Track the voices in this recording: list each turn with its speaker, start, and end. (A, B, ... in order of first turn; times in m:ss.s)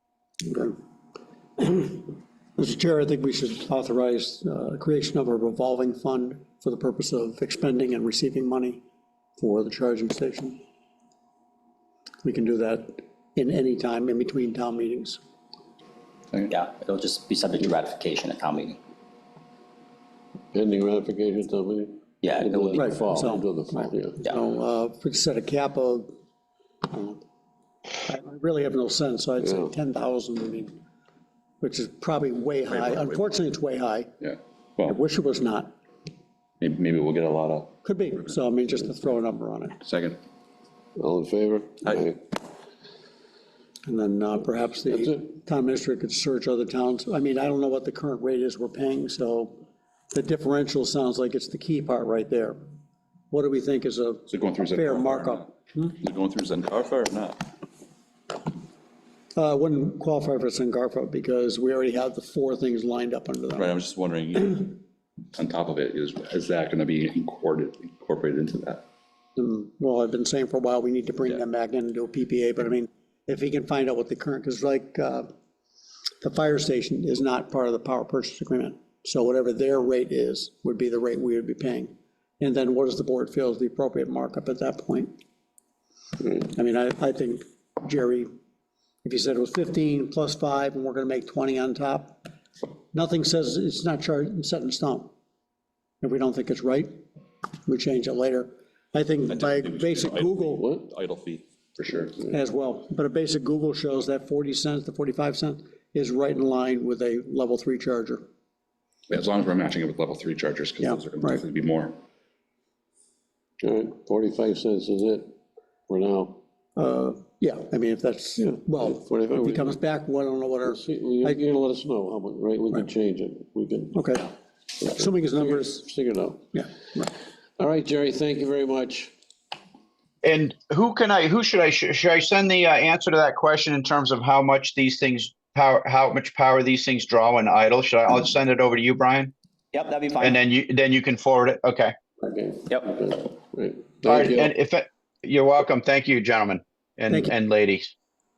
0:00.5-0:00.8 A
0:01.6-0:08.8 A
0:09.4-0:10.6 A
0:12.2-0:15.2 A
0:16.5-0:18.8 B
0:20.5-0:24.2 C
0:22.2-0:22.9 B
0:22.8-0:26.1 A
0:26.9-0:27.2 A
0:28.0-0:30.8 A
0:29.5-0:29.7 C
0:31.6-0:34.2 A
0:32.7-0:33.3 D
0:34.2-0:35.0 D
0:34.8-0:35.8 A
0:36.6-0:38.4 D
0:37.8-0:39.8 A
0:39.8-0:40.2 D
0:41.0-0:42.2 C
0:43.9-0:52.6 A
0:53.3-0:55.9 A
0:54.3-0:57.4 D
0:59.4-1:03.8 A
1:03.6-1:04.8 D
1:05.4-1:08.8 D
1:09.4-1:15.3 A
1:16.2-1:25.1 A
1:26.4-1:28.3 A
1:29.0-1:32.2 A
1:32.9-1:35.1 A
1:36.0-1:37.0 A
1:37.7-1:40.7 A
1:39.3-1:42.1 D
1:40.5-1:40.8 C
1:42.3-1:48.3 A
1:49.1-1:52.0 D
1:50.8-1:51.4 A
1:53.6-1:55.3 C
1:55.9-1:56.4 C
1:56.8-2:01.4 A
1:58.4-1:59.8 C
2:00.7-2:04.1 C
2:03.9-2:05.9 A
2:05.0-2:06.4 C
2:06.5-2:07.1 A
2:07.6-2:09.1 C
2:10.2-2:19.3 E
2:19.7-2:20.4 B
2:20.2-2:22.0 E
2:22.2-2:24.5 C
2:22.7-2:23.0 B
2:24.1-2:27.9 E